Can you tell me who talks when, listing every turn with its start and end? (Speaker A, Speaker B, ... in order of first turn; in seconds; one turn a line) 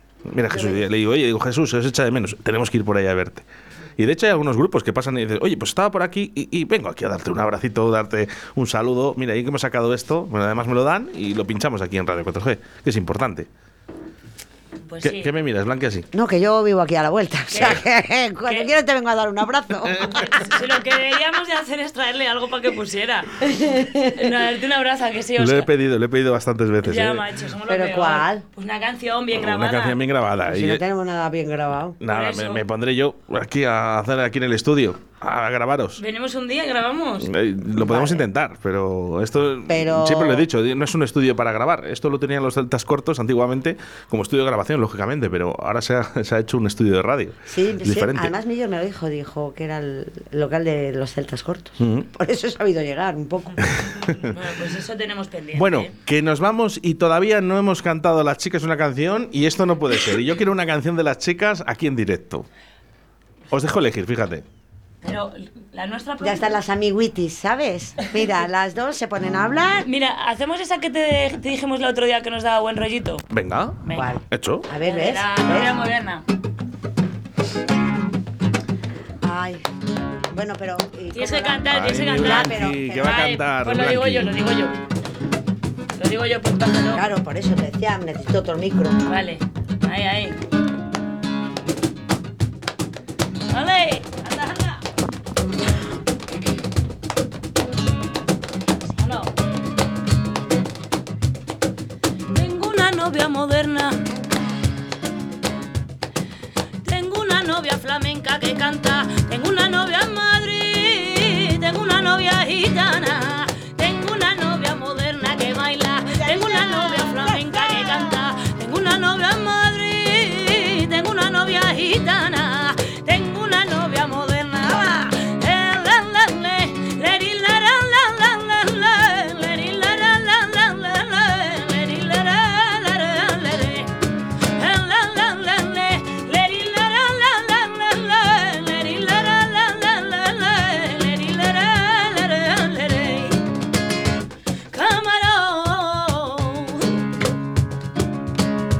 Speaker A: 0.3-3.4
Speaker B: 0.5-0.8
Speaker A: 4.0-13.5
Speaker C: 14.9-15.3
Speaker A: 15.0-16.1
Speaker B: 16.1-20.3
Speaker C: 17.5-17.8
Speaker C: 18.4-18.7
Speaker C: 20.1-23.4
Speaker B: 23.4-24.1
Speaker C: 24.1-25.7
Speaker A: 25.4-27.2
Speaker C: 26.8-30.0
Speaker B: 27.7-28.4
Speaker A: 29.3-30.8
Speaker B: 30.4-32.0
Speaker A: 32.0-36.0
Speaker C: 32.1-32.6
Speaker C: 36.0-37.3
Speaker A: 37.2-48.3
Speaker B: 37.8-38.2
Speaker B: 39.7-40.5
Speaker B: 47.5-53.7
Speaker A: 51.8-52.0
Speaker A: 53.7-54.3
Speaker C: 54.3-55.9
Speaker A: 55.5-62.5
Speaker A: 63.5-64.4
Speaker C: 65.0-66.6
Speaker B: 66.2-69.8
Speaker C: 69.8-73.2
Speaker A: 73.3-74.7
Speaker C: 73.8-74.1
Speaker B: 73.9-75.7
Speaker C: 74.8-76.2
Speaker B: 79.2-79.7
Speaker B: 80.3-83.2
Speaker C: 81.1-84.7
Speaker A: 81.7-84.4
Speaker C: 86.0-87.0
Speaker B: 86.9-89.0
Speaker C: 89.0-90.4
Speaker C: 93.5-94.8
Speaker C: 98.9-99.3
Speaker C: 102.3-104.0
Speaker C: 106.8-133.9
Speaker B: 116.2-117.2
Speaker C: 134.5-143.4
Speaker C: 144.7-147.0